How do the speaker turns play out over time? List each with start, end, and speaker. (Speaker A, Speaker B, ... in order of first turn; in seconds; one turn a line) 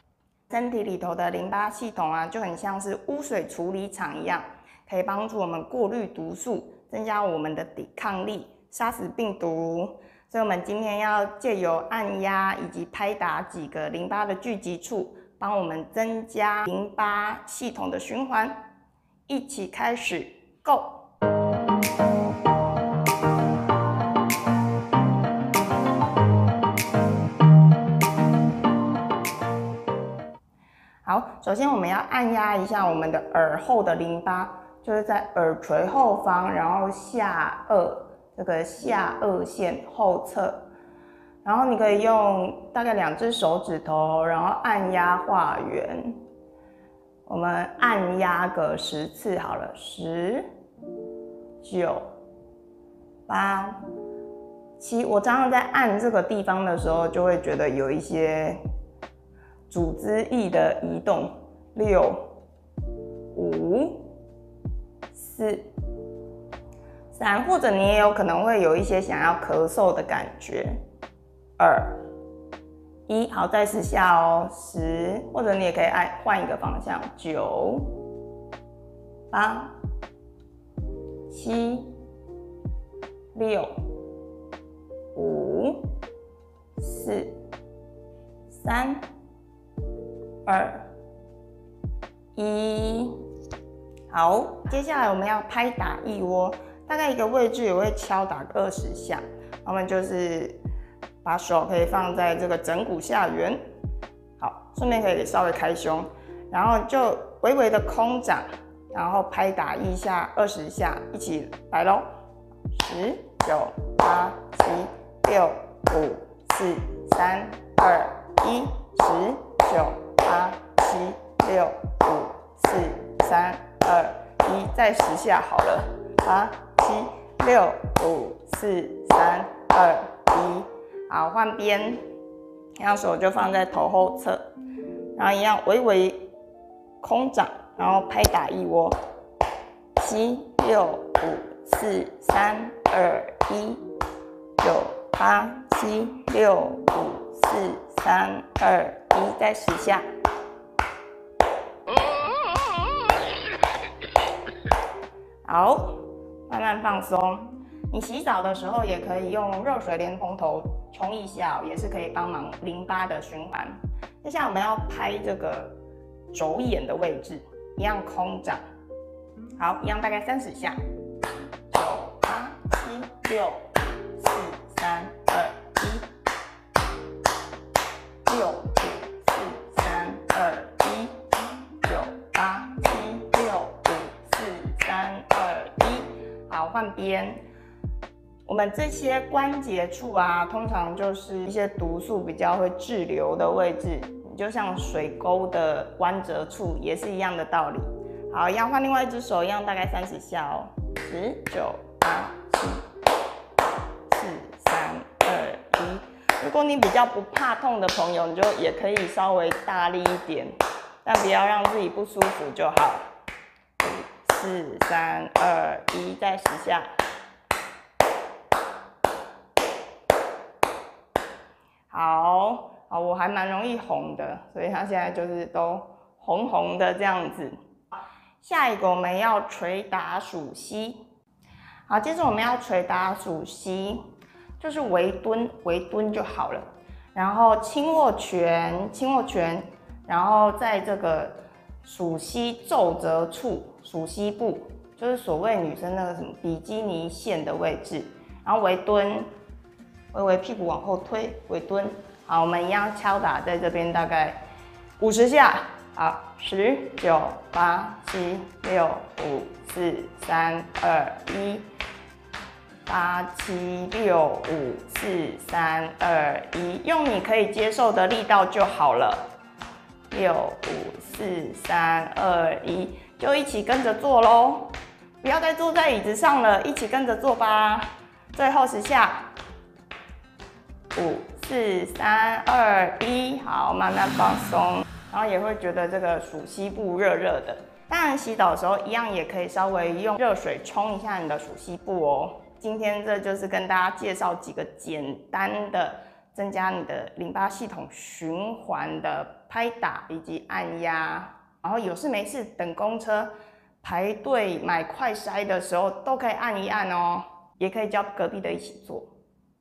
Speaker A: 0.5-18.6
Speaker A: 19.3-21.0
Speaker A: 31.1-40.7
Speaker A: 41.4-46.2
Speaker A: 47.3-50.5
Speaker A: 51.6-52.1
Speaker A: 53.3-53.8
Speaker A: 54.8-58.6
Speaker A: 59.7-62.3
Speaker A: 63.3-64.1
Speaker A: 65.1-65.7
Speaker A: 67.1-70.8
Speaker A: 71.6-72.0
Speaker A: 73.1-77.9
Speaker A: 79.3-79.8
Speaker A: 81.3-82.0
Speaker A: 83.3-83.7
Speaker A: 85.1-85.9
Speaker A: 86.8-87.4
Speaker A: 88.5-89.0
Speaker A: 90.5-90.9
Speaker A: 92.3-93.2
Speaker A: 94.1-100.6
Speaker A: 101.2-103.6
Speaker A: 104.4-112.1
Speaker A: 112.7-132.0
Speaker A: 132.8-134.5
Speaker A: 135.2-136.3
Speaker A: 137.0-139.0
Speaker A: 140.0-143.9
Speaker A: 144.6-150.0
Speaker A: 155.4-165.8
Speaker A: 166.3-168.6
Speaker A: 169.6-170.8
Speaker A: 171.7-176.1
Speaker A: 178.3-181.2
Speaker A: 181.8-187.4
Speaker A: 188.5-202.8
Speaker A: 204.1-213.1
Speaker A: 213.8-216.9
Speaker A: 221.9-227.5
Speaker A: 228.4-231.0
Speaker A: 231.9-234.0
Speaker A: 234.6-249.3
Speaker A: 250.1-254.4
Speaker A: 255.0-261.7
Speaker A: 262.9-269.3
Speaker A: 270.1-279.3
Speaker A: 280.9-303.3
Speaker A: 303.8-309.1